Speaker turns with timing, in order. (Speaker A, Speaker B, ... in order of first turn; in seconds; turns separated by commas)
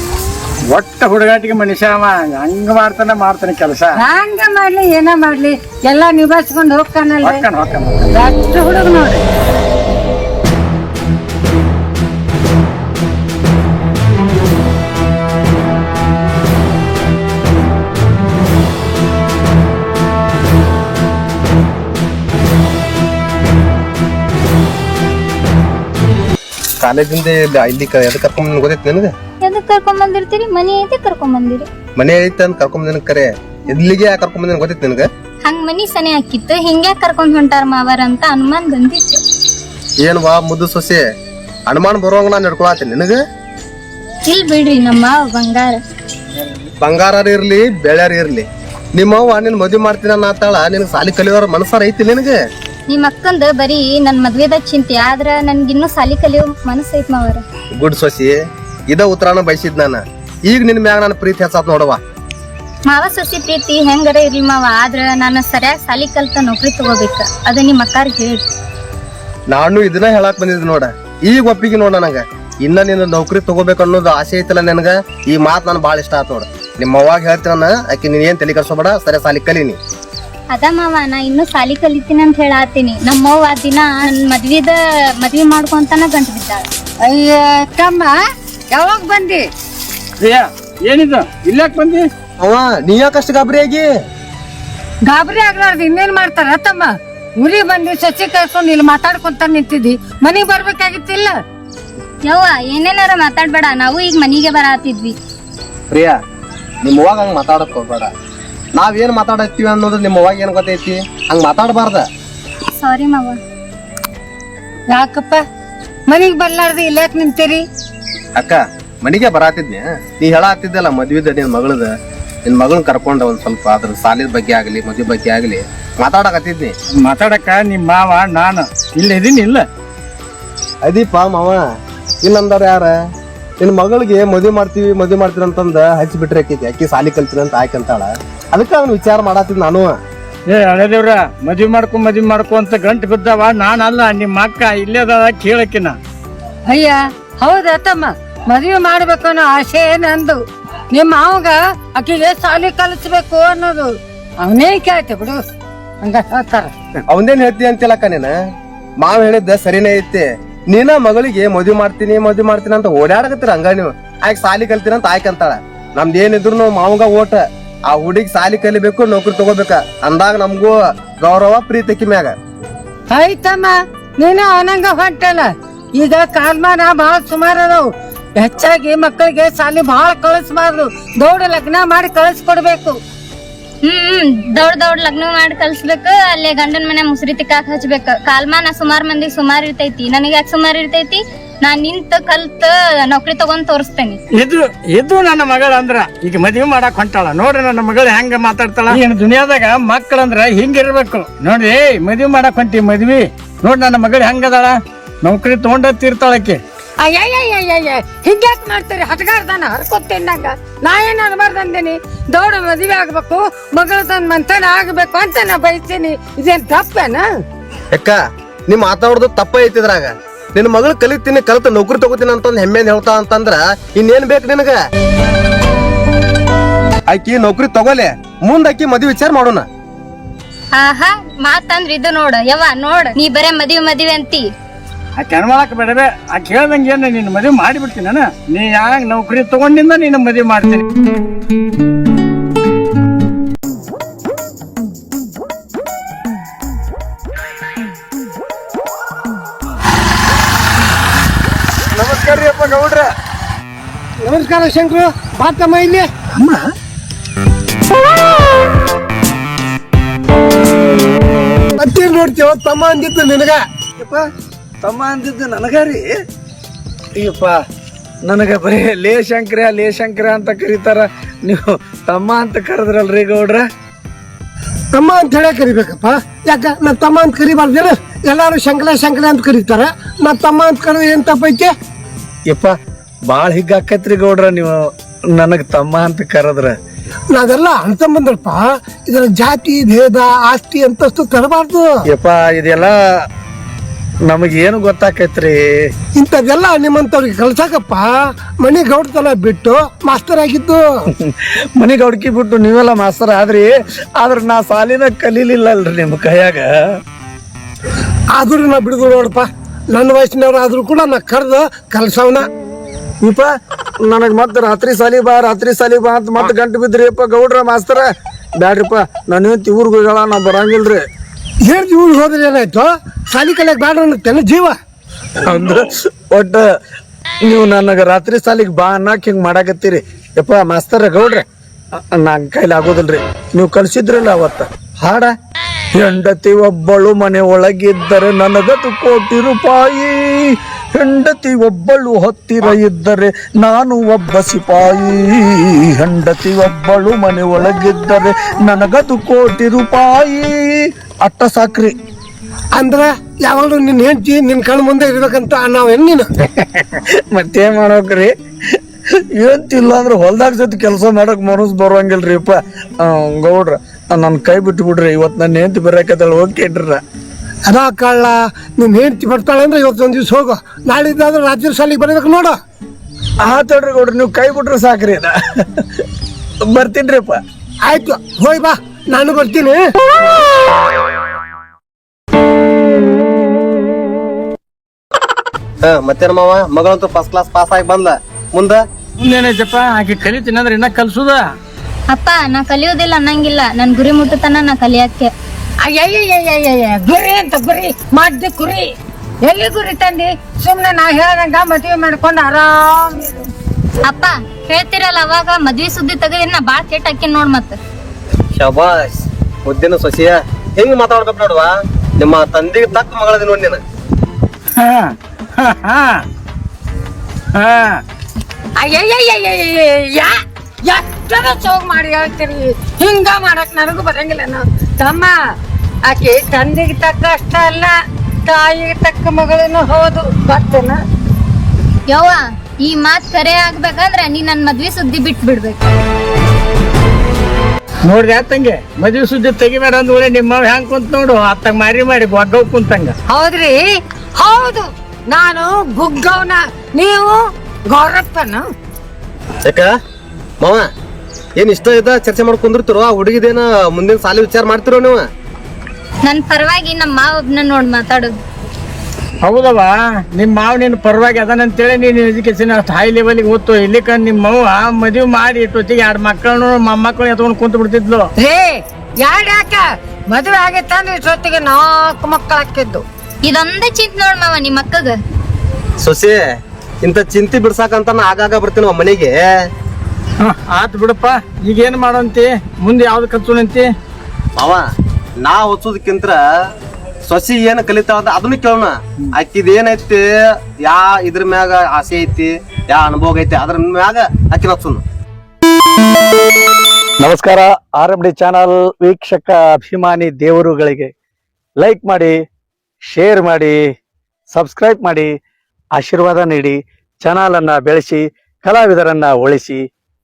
Speaker A: 0.7-3.9, Speaker B: 4.0-7.5, Speaker A: 7.2-8.1, Speaker B: 8.1-9.2, Speaker C: 26.8-29.1, Speaker D: 29.4-31.7, Speaker C: 32.0-35.1, Speaker D: 35.4-39.2, Speaker C: 40.0-41.0, Speaker C: 41.7-43.2, Speaker D: 44.3-45.8, Speaker C: 46.8-52.4, Speaker D: 52.9-57.4, Speaker C: 57.8-58.4, Speaker C: 58.9-62.0, Speaker D: 62.9-68.5, Speaker C: 69.5-79.8, Speaker D: 80.5-86.7, Speaker B: 87.0-88.1, Speaker B: 88.7-89.4, Speaker A: 90.2-92.0, Speaker C: 92.4-93.9, Speaker B: 95.1-101.4, Speaker D: 102.3-105.2, Speaker C: 105.9-106.2, Speaker C: 106.8-108.1, Speaker C: 108.8-112.0, Speaker D: 112.8-113.4, Speaker B: 114.9-115.4, Speaker B: 116.1-117.6, Speaker C: 118.4-121.9, Speaker C: 122.5-126.7, Speaker A: 127.0-129.7, Speaker C: 130.8-131.6, Speaker C: 132.2-132.9, Speaker C: 133.6-139.9, Speaker A: 140.5-145.9, Speaker B: 146.7-150.4, Speaker B: 150.9-153.9, Speaker B: 154.4-155.4, Speaker B: 156.0-156.7, Speaker C: 157.1-158.3, Speaker C: 159.0-172.3, Speaker B: 173.1-177.9, Speaker B: 178.4-183.0, Speaker D: 183.8-194.2, Speaker A: 194.3-206.6, Speaker B: 207.0-217.3, Speaker C: 217.9-224.8, Speaker C: 227.1-229.7, Speaker D: 230.7-234.5, Speaker A: 235.2-240.8, Speaker E: 251.9-253.1, Speaker F: 254.2-256.1, Speaker F: 261.7-263.6, Speaker E: 264.0-264.3, Speaker E: 264.8-266.2, Speaker E: 267.1-267.6, Speaker E: 268.2-273.7, Speaker F: 274.9-281.7, Speaker E: 282.5-282.8, Speaker E: 283.3-286.8, Speaker F: 287.3-292.0, Speaker E: 292.1-293.0, Speaker E: 294.3-295.9, Speaker F: 296.2-300.9, Speaker E: 301.2-306.7, Speaker F: 308.3-312.5, Speaker E: 313.2-313.5, Speaker E: 314.0-321.1, Speaker F: 321.6-324.8, Speaker E: 325.4-326.7, Speaker E: 327.4-331.4, Speaker E: 332.1-335.3, Speaker E: 335.9-352.0, Speaker F: 352.7-356.3, Speaker E: 356.6-358.8, Speaker E: 359.3-367.0, Speaker F: 367.7-372.6, Speaker E: 373.4-376.0, Speaker E: 376.6-377.4, Speaker F: 377.9-379.9, Speaker C: 385.8-388.8, Speaker A: 389.2-391.5, Speaker D: 392.1-395.3, Speaker B: 395.8-398.9, Speaker B: 399.4-403.4, Speaker D: 404.1-407.8, Speaker C: 408.6-413.8, Speaker A: 414.8-416.2, Speaker A: 417.5-418.0, Speaker B: 418.8-425.4, Speaker B: 426.1-427.9, Speaker B: 428.5-431.0, Speaker D: 432.1-435.9, Speaker A: 438.1-443.1, Speaker B: 443.3-448.6, Speaker C: 449.6-449.9, Speaker C: 450.6-450.9, Speaker C: 451.6-455.2, Speaker D: 456.2-458.4, Speaker A: 459.4-468.3, Speaker B: 468.4-473.0, Speaker D: 473.4-475.2, Speaker C: 476.0-476.4, Speaker C: 477.0-479.4, Speaker A: 480.4-483.9, Speaker C: 484.6-484.8, Speaker C: 485.4-486.4, Speaker C: 487.3-490.2, Speaker C: 490.8-495.0, Speaker E: 497.2-501.1, Speaker E: 501.8-502.4, Speaker E: 503.1-503.8, Speaker E: 504.5-505.3, Speaker E: 505.9-509.8